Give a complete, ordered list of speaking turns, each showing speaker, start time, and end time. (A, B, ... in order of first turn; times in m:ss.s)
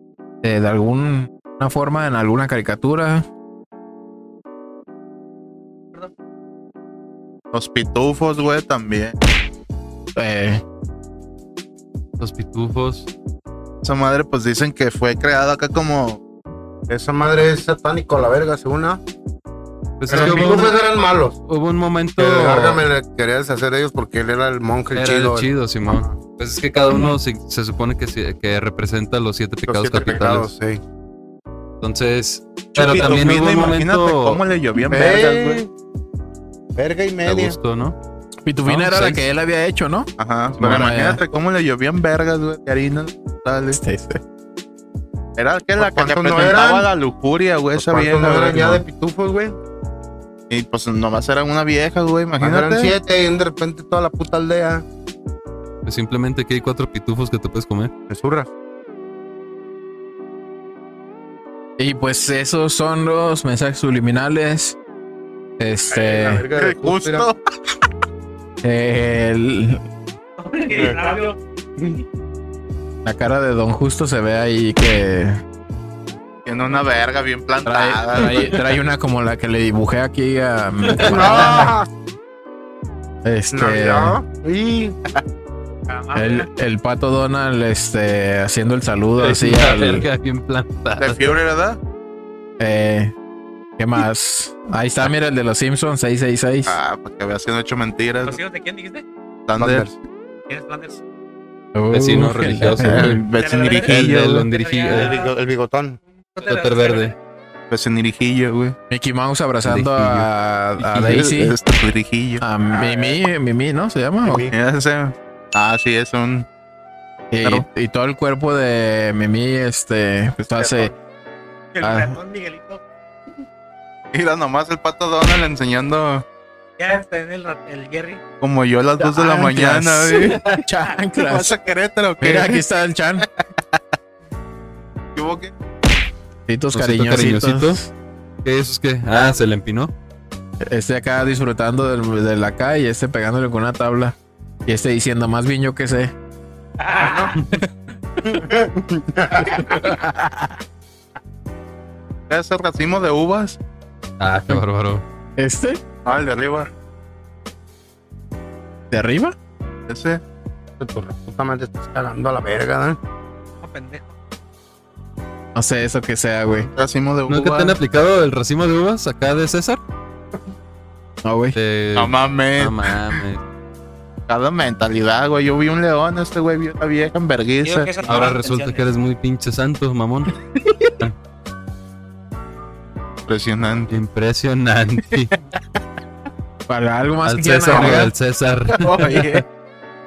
0:00.4-0:03.3 A
0:07.5-0:09.2 B
0:10.2-0:10.6 A
0:12.2-0:13.1 C
0:13.8-0:16.2 B
0:16.9-0:19.0 D
0:20.0-0:20.8 C
0:20.1-0:21.4 D
0:21.5-0:22.8 C
0:22.2-0:26.1 D
0:24.9-0:30.5 C
0:29.7-0:30.8 D
0:31.8-0:34.4 C
0:32.7-0:35.6 B
0:34.9-0:35.7 D
0:36.8-0:37.6 D
0:37.2-0:38.0 C
0:38.4-0:41.2 A
0:38.6-0:39.3 C
0:40.2-0:43.8 B
0:40.6-0:41.0 C
0:43.7-0:44.2 A
0:45.4-0:48.8 B
0:45.8-0:46.9 D
0:47.7-0:49.6 D
0:50.5-0:52.9 B
0:52.4-0:54.8 D
0:55.8-0:57.9 C
0:58.1-0:58.5 D
1:01.8-1:04.8 A
1:05.6-1:06.4 A
1:05.9-1:07.3 D
1:06.6-1:07.4 B
1:08.6-1:09.8 A
1:10.4-1:12.0 E
1:13.0-1:15.4 A
1:16.4-1:18.6 B
1:17.6-1:21.7 A
1:21.0-1:21.9 D
1:21.1-1:21.5 B
1:23.2-1:24.2 A
1:23.5-1:25.0 D
1:25.9-1:26.5 E
1:26.1-1:30.1 A
1:29.2-1:31.3 C
1:31.0-1:31.8 B
1:32.6-1:33.1 A
1:33.8-1:36.8 A
1:36.7-1:38.4 B
1:38.2-1:39.0 E
1:39.5-1:40.0 B
1:39.6-1:39.9 D
1:40.5-1:41.0 E
1:41.7-1:43.2 A
1:41.9-1:43.2 C
1:42.8-1:44.5 B
1:43.3-1:45.3 E
1:43.8-1:45.1 C
1:44.9-1:46.0 D
1:46.4-1:47.1 E
1:46.4-1:47.1 C
1:47.7-1:48.8 B
1:48.9-1:51.6 A
1:49.6-1:50.3 C
1:50.8-1:51.3 C
1:51.0-1:52.4 B
1:52.4-1:54.4 A
1:52.8-1:53.1 D
1:54.2-1:54.5 D
1:54.5-1:56.5 B
1:57.3-2:00.9 A
2:00.6-2:00.9 D
2:01.7-2:02.8 E
2:01.8-2:02.2 A
2:04.1-2:06.2 B
2:06.8-2:08.2 E
2:08.4-2:10.6 B
2:09.0-2:11.5 A
2:11.2-2:12.6 B
2:12.2-2:13.2 A
2:15.1-2:15.5 B
2:16.5-2:17.9 A
2:16.7-2:17.8 C
2:18.4-2:19.9 C
2:20.6-2:26.1 A
2:26.8-2:27.4 E
2:27.0-2:27.3 D
2:28.3-2:29.6 D
2:29.4-2:30.6 A
2:32.3-2:33.6 B
2:34.2-2:35.0 C
2:35.4-2:35.8 A
2:36.0-2:36.7 B
2:38.9-2:39.4 A
2:39.9-2:40.2 B
2:40.8-2:43.0 D
2:43.6-2:44.1 E
2:45.5-2:46.7 A
2:46.7-2:47.8 B
2:47.3-2:49.8 C
2:51.2-2:51.6 A
2:51.5-2:53.4 C
2:51.9-2:52.9 B
2:54.3-2:58.0 B
2:57.6-2:58.8 E
2:58.0-3:00.4 C
3:03.3-3:03.9 B
3:03.9-3:05.3 C
3:06.7-3:08.1 A
3:07.2-3:09.3 C
3:07.7-3:08.1 B
3:08.8-3:09.4 B